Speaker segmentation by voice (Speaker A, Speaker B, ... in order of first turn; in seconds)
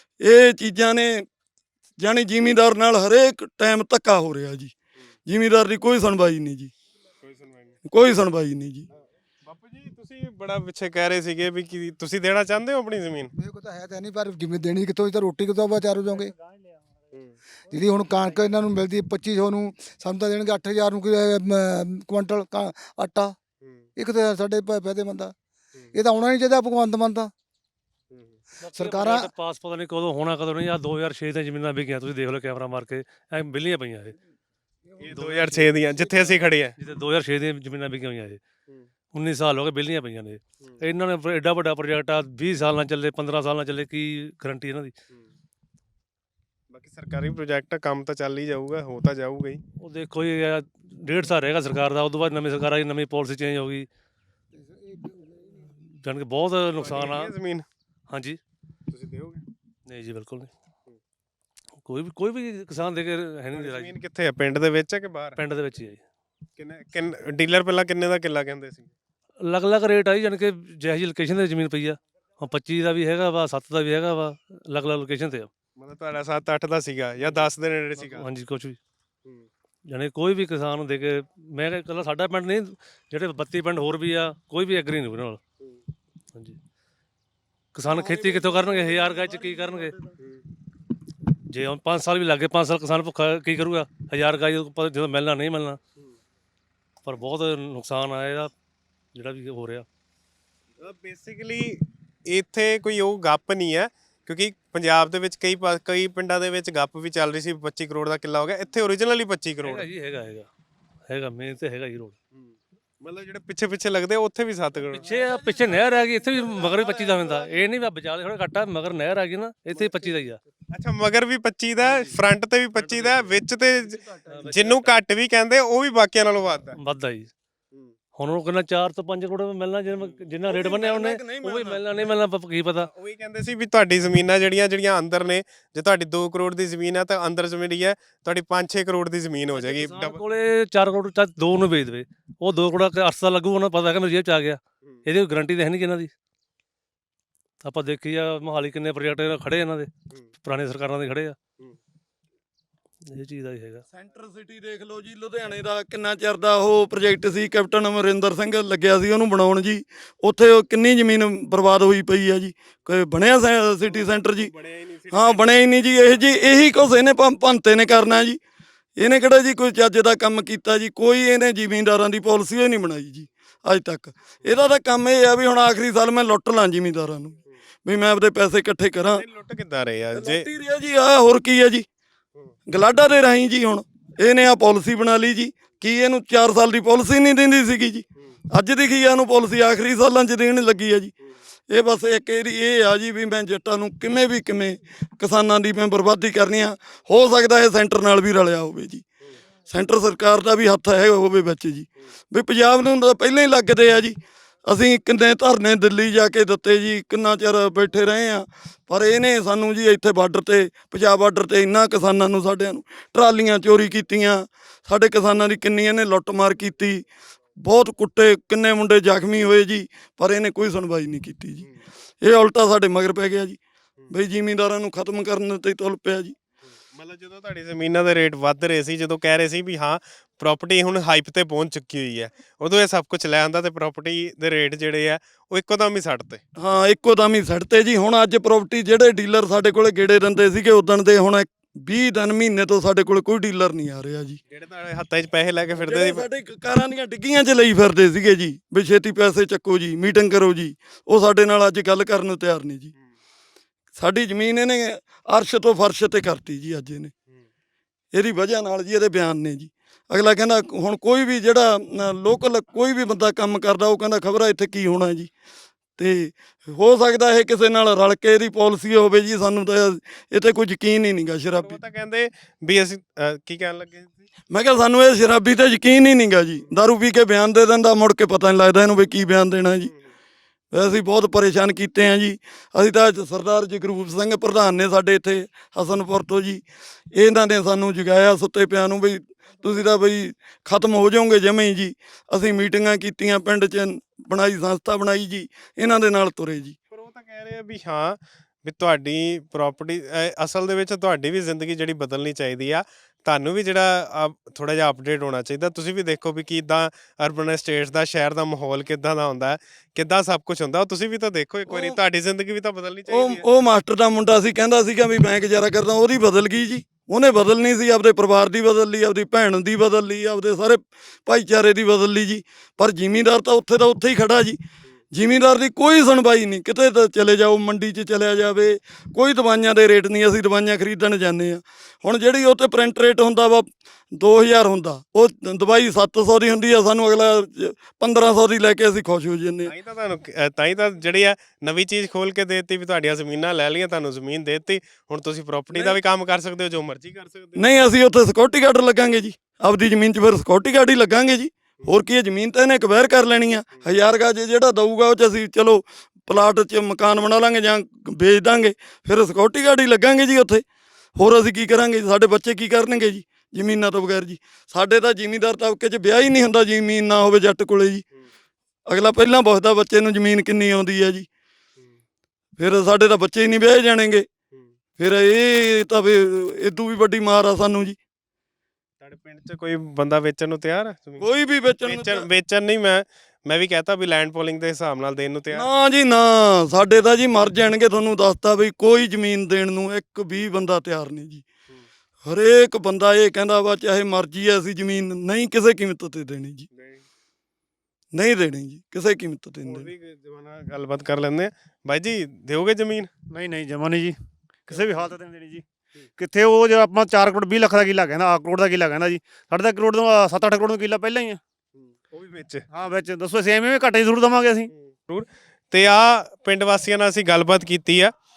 Speaker A: 0.2-1.2, 2.0-4.7, 5.3-6.7, 7.9-8.9, 130.5-132.0, 153.9-164.5, 165.1-168.4, 169.0-179.2, 180.1-181.8, 182.7-191.1, 191.7-199.0, 199.7-217.0, 217.6-221.6, 222.2-223.6, 224.1-226.3, 236.6-244.4, 245.8-252.9, 253.9-257.1, 258.1-265.3, 266.0-271.8, 274.5-279.9, 280.7-286.6, 287.1-296.8, 311.7-312.0, 313.1-324.6, 325.1-339.7, 345.7-346.0, 347.6-360.6, 361.2-368.0, 368.9-371.2, 372.6-374.2, 375.0-378.0, 381.2-382.3, 385.5-391.4, 392.3-396.7, 398.1-399.9
Speaker B: 7.2-7.7, 9.4-13.3, 35.0-36.7, 46.7-49.6, 56.8-57.6, 58.9-59.4, 63.5-65.4, 66.6-68.9, 75.8-78.3, 100.8-109.9, 112.3-115.1, 120.7-126.8, 132.8-140.2, 163.9-165.6, 179.1-180.5, 226.9-236.4, 244.5-246.2, 271.6-274.2, 296.9-313.4, 339.6-347.7, 379.0-381.3, 381.8-385.7, 396.8-397.0, 399.6-403.1, 404.7-405.1, 411.8-412.6, 414.9-418.1
Speaker C: 13.4-16.3, 17.7-23.4, 23.9-25.3, 25.9-27.3, 28.7-29.3, 54.7-55.6
Speaker D: 28.6-34.2, 35.1-35.5, 36.8-38.4, 39.1-44.9, 49.8-53.9, 56.0-57.3, 58.1-58.4, 59.9-60.5, 61.8-63.9, 65.4-66.0, 69.4-75.5, 78.0-78.8, 79.9-85.4, 87.7-89.9, 91.5-95.8, 97.0-98.5, 99.1-99.8, 109.6-110.5, 111.1-112.2, 114.9-120.4, 122.9-123.3, 124.3-124.9, 126.8-127.3, 128.2-132.9, 139.5-146.1, 147.6-149.9, 150.4-151.3, 153.1-153.8
Speaker E: 403.3-404.2, 404.7-405.6, 406.2-411.4, 412.7-414.7